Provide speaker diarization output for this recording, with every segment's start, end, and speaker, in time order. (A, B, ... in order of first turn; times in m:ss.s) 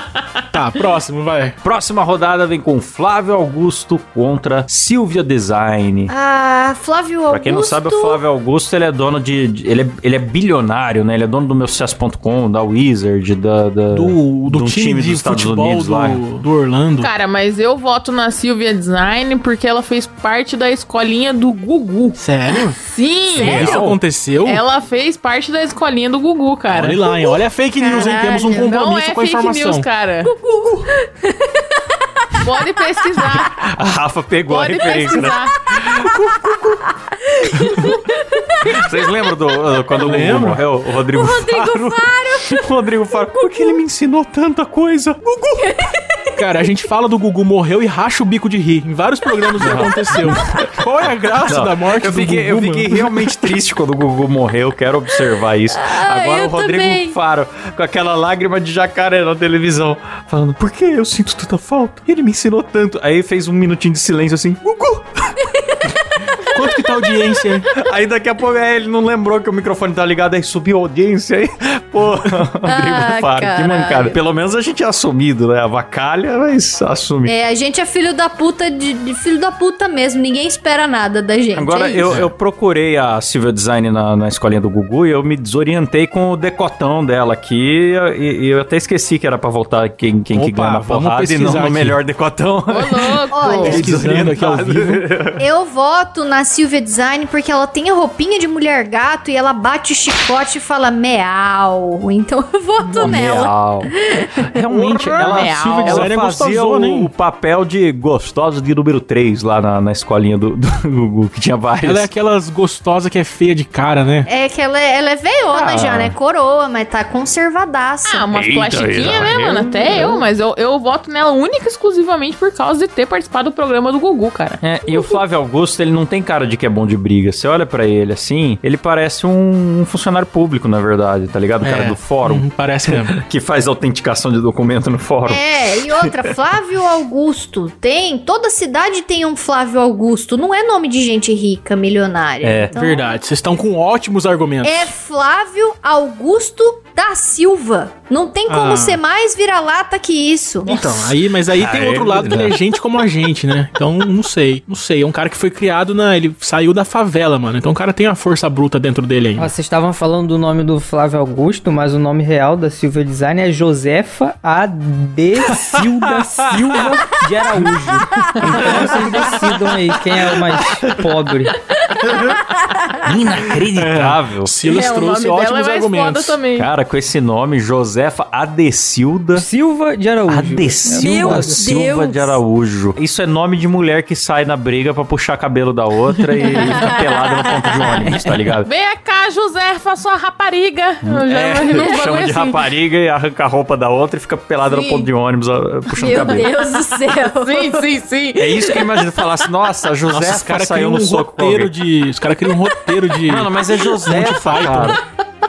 0:00.5-0:01.6 A
0:01.6-0:06.1 B
0:06.1-0:08.2 C
0:07.3-0:16.2 B
0:13.9-0:17.1 A
0:17.0-0:22.2 D
0:22.2-0:22.8 A
0:22.7-0:23.8 D
0:23.4-0:24.0 B
0:23.4-0:24.6 A
0:24.4-0:27.2 D
0:26.7-0:29.8 A
0:27.8-0:28.7 C
0:28.5-0:30.3 D
0:30.2-0:32.5 C
0:32.4-0:33.5 D
0:33.5-0:36.9 B
0:34.5-0:35.8 D
0:37.2-0:39.8 C
0:37.5-0:38.0 B
0:38.6-0:45.8 B
0:39.9-0:40.6 A
0:41.1-0:42.7 C
0:43.3-0:43.8 C
0:45.6-0:46.2 C
0:46.4-0:53.3 A
0:49.6-0:50.8 B
0:51.4-1:05.5 B
0:55.7-0:57.2 C
1:06.4-1:07.7 A
1:07.7-1:17.3 B
1:12.6-1:14.2 C
1:17.2-1:22.2 C
1:21.6-1:35.4 B
1:30.3-1:32.0 A
1:32.7-1:33.9 D
1:33.3-1:33.8 C
1:33.6-1:35.1 A
1:35.4-1:44.5 C
1:42.8-1:52.1 B
1:44.7-1:47.1 A
1:45.2-1:46.1 D
1:51.8-1:54.3 A
1:54.3-1:58.3 C
1:55.5-1:56.1 B
1:58.1-2:04.6 D
1:58.3-2:00.2 B
2:04.6-2:15.4 B
2:11.6-2:13.2 A
2:15.3-2:23.1 C
2:22.4-2:22.7 B
2:22.7-2:24.9 A
2:24.6-2:30.9 C
2:28.5-2:29.0 A
2:30.6-2:39.5 A
2:31.5-2:32.6 B
2:39.4-2:51.6 E
2:45.5-2:46.8 B
2:48.6-2:48.8 B
2:52.0-2:52.4 B
2:52.4-2:53.0 C
2:53.0-2:54.6 B
2:53.7-2:56.4 A
2:54.6-2:56.7 D
2:56.6-2:59.4 B
2:59.4-3:01.7 E
3:00.3-3:08.7 B
3:01.0-3:02.4 C
3:06.4-3:07.9 C
3:08.6-3:12.7 D
3:11.0-3:16.5 B
3:14.7-3:15.1 D
3:15.9-3:17.9 C
3:17.2-3:19.2 D
3:18.4-3:21.7 B
3:20.1-3:25.0 A
3:23.2-3:25.0 B